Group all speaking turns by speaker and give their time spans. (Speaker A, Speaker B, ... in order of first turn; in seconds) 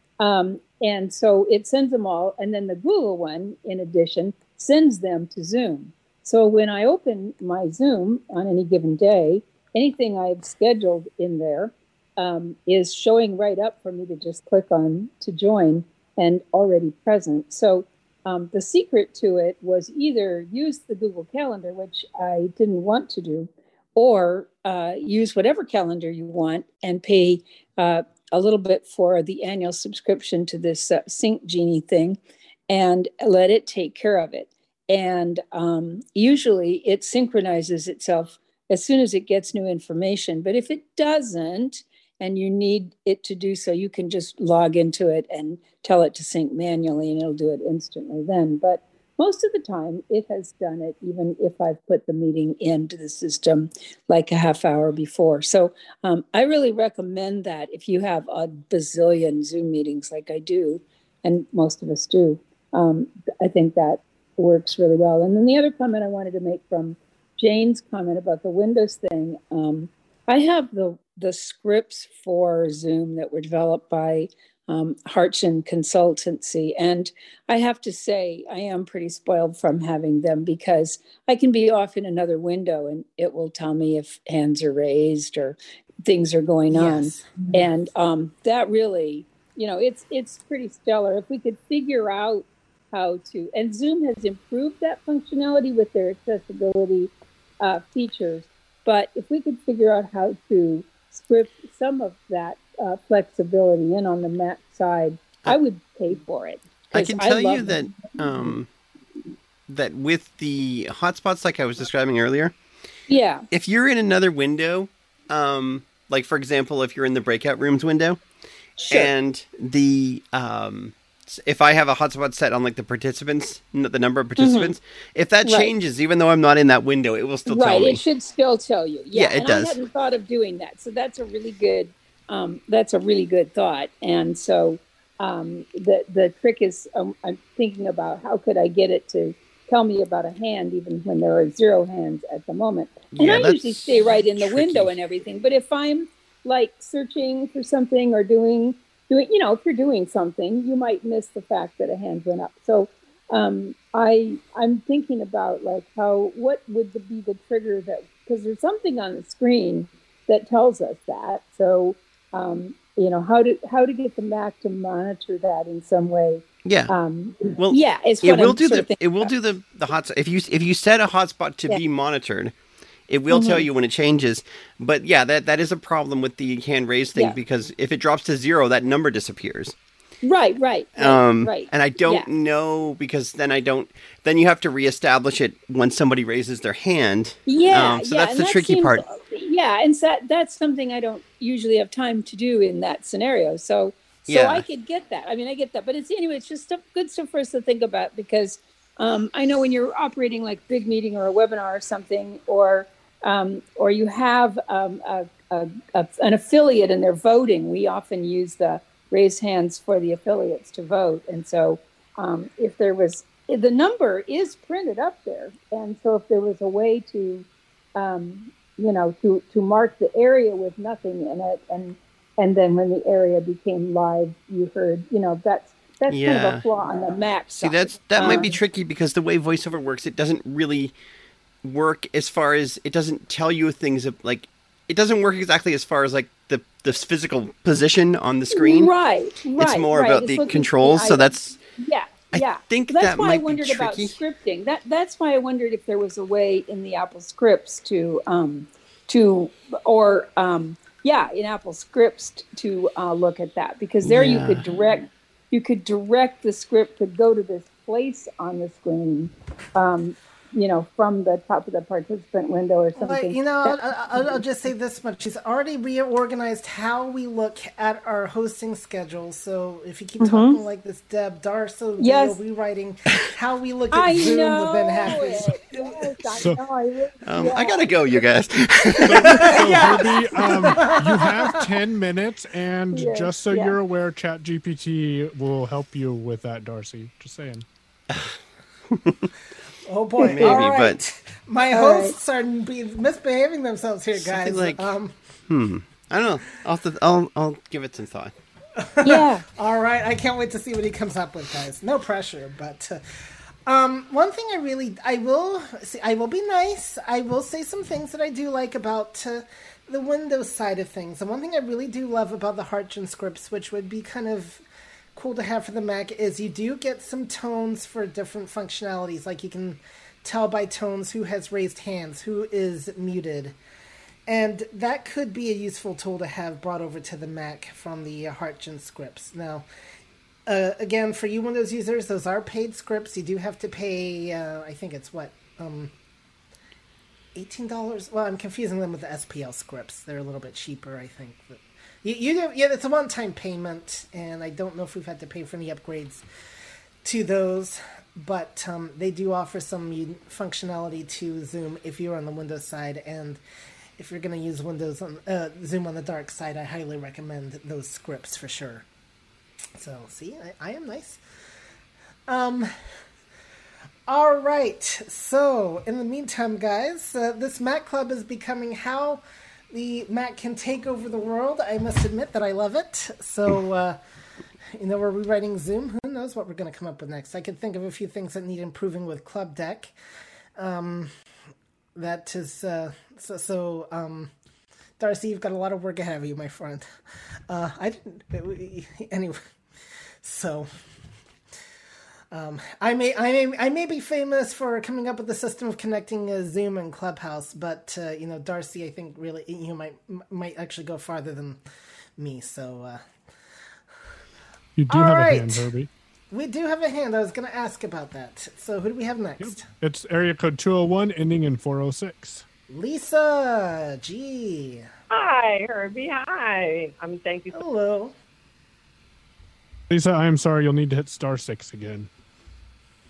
Speaker A: 0.2-108.5, 113.1-113.5, 118.8-119.1, 124.4-124.8, 125.4-125.7, 127.5-169.3, 173.3-173.7, 180.2-182.3, 187.4-228.6, 238.5-264.4, 270.2-270.6, 272.0-272.4, 273.9-278.2, 279.2-281.2, 282.9-283.8, 290.2-290.7, 291.7-292.1, 299.0-299.4
Speaker B: 86.7-87.4, 262.9-276.5, 278.9-281.8, 289.8-295.1, 298.8-303.0, 303.6-314.6, 315.1-323.6, 324.3-329.6, 330.4-335.9, 337.3-346.2, 347.0-353.4, 354.0-358.9, 359.8-361.2, 362.3-362.7, 364.1-374.0, 374.8-379.9, 380.6-381.1, 381.9-384.3, 385.0-386.9, 387.5-389.4, 390.2-390.7, 392.3-401.6, 402.2-403.0, 404.9-405.7, 406.3-409.6, 412.7-414.9, 417.5-418.1
Speaker C: 106.9-108.7, 109.7-112.5, 113.5-118.2, 118.9-128.0, 129.1-129.8, 143.1-144.9, 166.6-166.9, 167.6-172.5, 173.1-179.8, 181.0-189.0, 194.3-194.6, 226.1-226.6, 227.6-230.9, 231.6-238.9, 239.6-241.6, 242.3-244.2, 254.0-254.7, 277.2-279.6, 288.1-288.4, 288.9-289.3, 290.2-291.0, 294.2-294.9, 295.5-298.3
Speaker D: 279.1-287.6, 404.8-405.9, 409.4-412.4, 419.9-422.1
Speaker E: 415.1-417.6